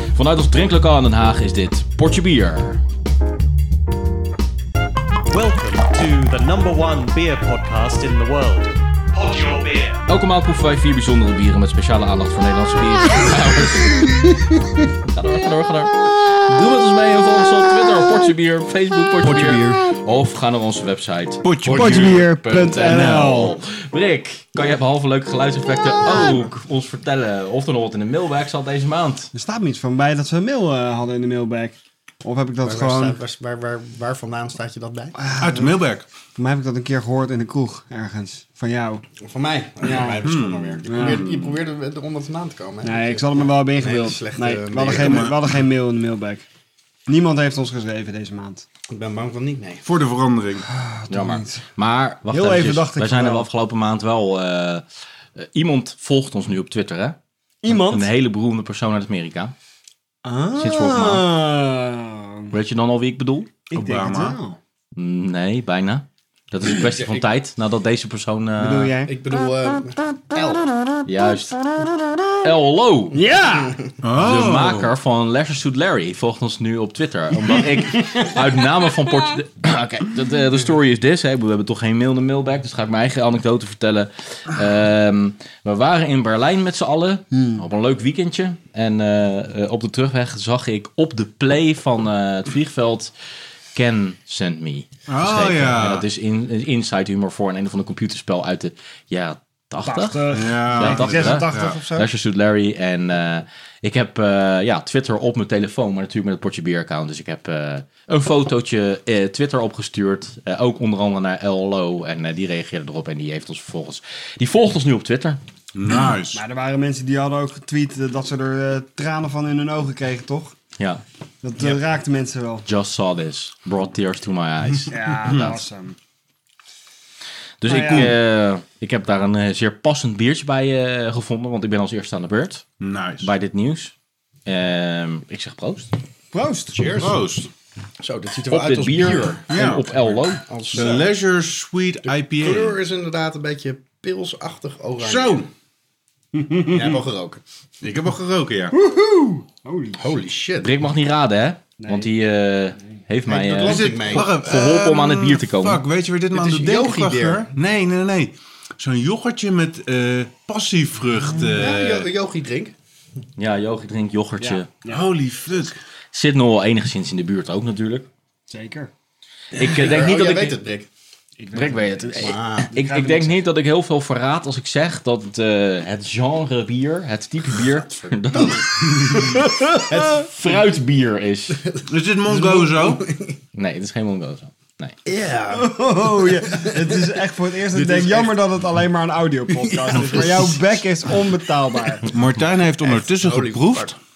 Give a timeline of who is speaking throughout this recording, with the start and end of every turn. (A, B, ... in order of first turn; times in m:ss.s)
0:00.1-0:02.8 A
0:05.3-0:10.0 B
0:10.1-0:14.2 A
0:15.0-0:29.3 A
0:19.2-0:19.9 C
0:21.4-0:22.2 D
0:21.6-0:23.6 E
0:29.3-0:33.2 E
0:32.6-0:35.2 C
0:35.1-0:35.7 E
0:35.4-0:36.0 D
0:36.3-0:39.0 E
0:39.2-0:45.2 C
0:39.8-0:40.2 E
0:40.2-0:41.6 D
0:40.9-0:41.2 E
0:42.8-0:46.4 E
0:44.9-0:45.4 D
0:47.1-0:48.6 E
0:48.9-0:49.8 C
0:49.8-0:50.6 D
0:50.7-0:51.6 E
0:51.1-0:54.8 A
0:52.3-0:53.5 E
0:55.4-0:59.5 A
0:57.6-0:58.1 E
1:00.2-1:02.5 E
1:00.6-1:01.2 A
1:02.5-1:03.5 A
1:03.7-1:04.6 E
1:03.7-1:04.4 D
1:04.9-1:09.0 A
1:06.7-1:07.3 C
1:08.6-1:09.1 E
1:09.0-1:11.0 C
1:11.0-1:11.7 A
1:12.4-1:13.2 A
1:13.1-1:13.7 E
1:13.6-1:13.9 C
1:14.0-1:14.9 D
1:14.2-1:33.1 A
1:17.7-1:18.1 E
1:27.3-1:27.6 E
1:33.7-1:55.4 A
1:35.1-1:36.0 D
1:39.8-1:42.1 E
1:40.3-1:41.8 D
1:55.7-1:56.4 D
1:56.3-2:00.5 E
2:01.4-2:02.6 E
2:02.6-2:05.6 A
2:04.9-2:06.0 E
2:07.6-2:12.6 A
2:07.6-2:08.2 E
2:12.8-2:13.3 D
2:13.2-2:13.9 A
2:14.4-2:15.9 A
2:16.3-2:16.8 E
2:16.7-2:17.2 C
2:17.0-2:17.5 D
2:18.0-2:21.1 C
2:18.5-2:20.4 A
2:19.5-2:19.9 D
2:20.7-2:22.8 D
2:22.0-2:25.5 C
2:25.0-2:25.4 D
2:26.3-2:27.0 E
2:26.7-2:27.4 C
2:27.8-2:28.8 D
2:28.7-2:30.2 E
2:30.0-2:30.7 C
2:30.6-2:35.8 A
2:31.8-2:32.1 E
2:33.3-2:34.4 C
2:33.6-2:42.1 D
2:36.3-2:37.5 C
2:41.4-2:42.7 C
2:43.4-2:44.7 A
2:44.4-2:45.0 E
2:44.9-2:45.8 D
2:46.1-2:48.0 A
2:48.5-2:48.9 E
2:49.5-2:50.5 A
2:49.6-2:50.9 C
2:51.4-2:53.4 E
2:51.5-3:01.6 A
2:52.2-2:53.1 C
2:58.4-3:00.8 C
3:01.6-3:03.4 C
3:01.9-3:03.0 D
3:03.5-3:05.0 A
3:05.0-3:07.1 C
3:05.5-3:12.0 E
3:07.7-3:08.3 C
3:09.6-3:10.6 C
3:12.1-3:13.9 D
3:12.8-3:14.0 C